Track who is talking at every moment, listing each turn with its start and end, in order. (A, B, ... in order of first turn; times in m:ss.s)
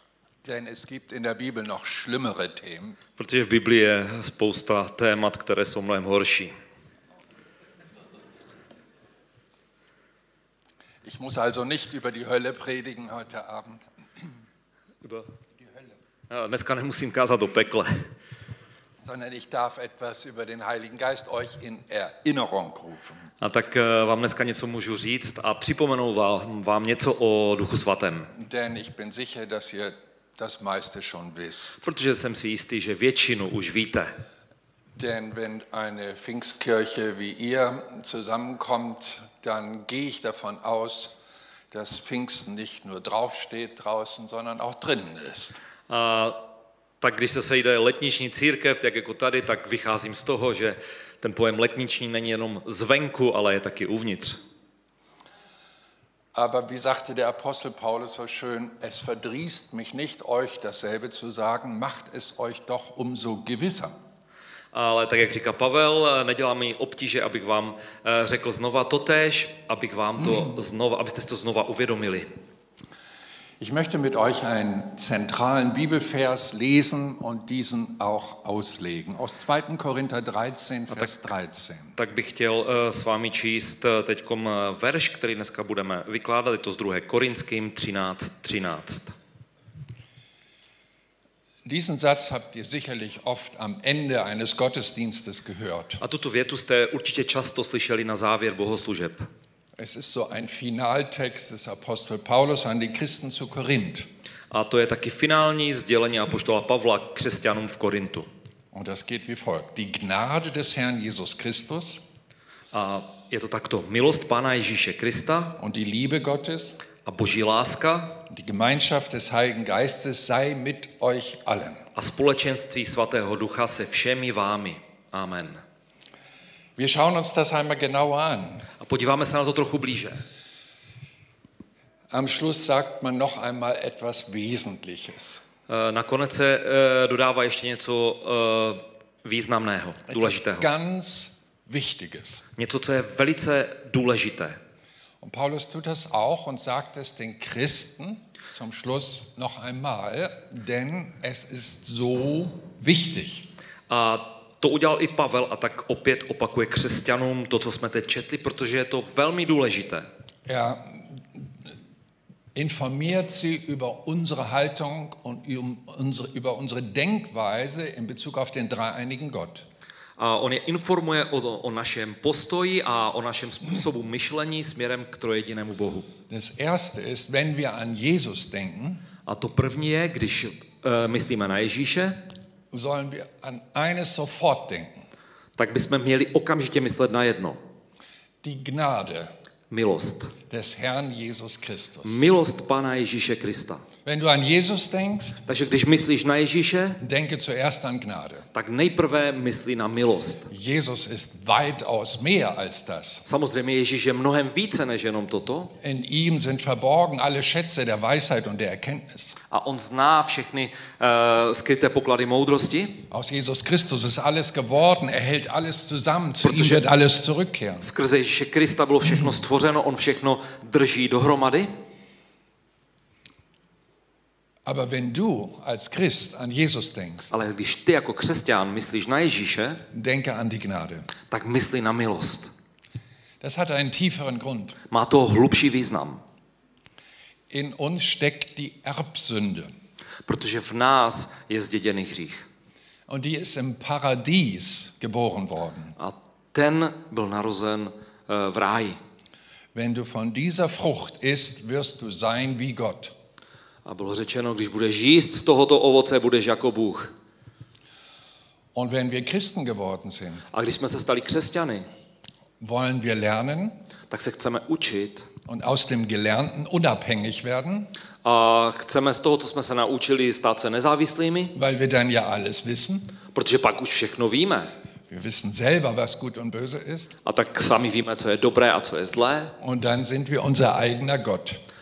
0:00.4-0:03.0 A
0:03.2-0:06.5 B
0:11.0-0:13.8 A
0:15.0-0:15.3 B
0:16.3-0:18.1 B
0:19.0-0:23.3 A
0:23.4-0:28.3 B
0:28.3-0:31.8 A
0:31.8-0:34.1 B
0:35.0-0:41.1 A
0:41.7-0:45.6 A
0:45.9-0:46.4 B
0:47.0-0:54.4 B
0:56.3-1:03.9 A
1:04.7-1:12.3 B
1:13.6-1:22.0 A
1:20.9-1:21.2 B
1:22.0-1:29.1 B
1:31.6-1:36.0 A
1:36.0-1:39.2 B
1:39.8-1:44.1 A
1:44.5-1:48.3 B
1:48.7-1:52.0 A
1:52.7-1:55.6 B
1:55.6-1:56.8 A
1:57.0-1:58.2 B
1:58.3-2:01.8 A
2:01.9-2:05.6 B
2:06.8-2:08.7 A
2:08.8-2:10.2 B
2:12.1-2:15.4 A
2:15.7-2:20.7 B
2:20.1-2:22.4 A
2:22.6-2:24.6 B
2:25.2-2:33.5 A
2:33.9-2:40.1 B
2:40.4-2:41.5 A
2:42.5-2:49.6 A
2:50.2-2:56.1 B
2:56.3-2:59.0 A
2:59.2-3:02.2 B
3:02.7-3:04.9 A
3:05.6-3:07.6 B
3:08.4-3:09.3 A
3:09.7-3:10.3 B
3:10.5-3:12.2 A
3:12.0-3:13.8 B
3:14.0-3:15.4 A
3:15.4-3:17.0 B
3:17.0-3:18.4 A
3:18.5-3:20.5 B
3:20.5-3:23.2 A
3:23.2-3:25.7 B
3:25.8-3:29.3 A
3:29.5-3:32.9 B
3:33.1-3:37.9 A
3:36.4-3:36.9 B
3:37.8-3:41.7 B
3:44.6-3:47.3 A
3:47.3-3:49.8 B
3:49.9-3:51.1 A
3:51.2-3:52.5 B
3:53.4-3:54.8 A
3:54.9-3:56.2 B
3:57.5-3:59.7 A
4:00.2-4:02.4 B
4:03.1-4:06.0 A
4:06.0-4:09.0 B
4:09.7-4:13.1 A
4:13.8-4:17.1 B
4:18.7-4:20.4 A
4:20.5-4:21.9 B
4:22.6-4:23.8 A
4:24.1-4:25.3 B
4:25.4-4:27.9 A
4:28.2-4:31.5 B
4:31.5-4:33.1 A
4:33.3-4:34.7 B
4:35.1-4:37.1 A
4:37.2-4:39.5 B
4:39.6-4:41.6 A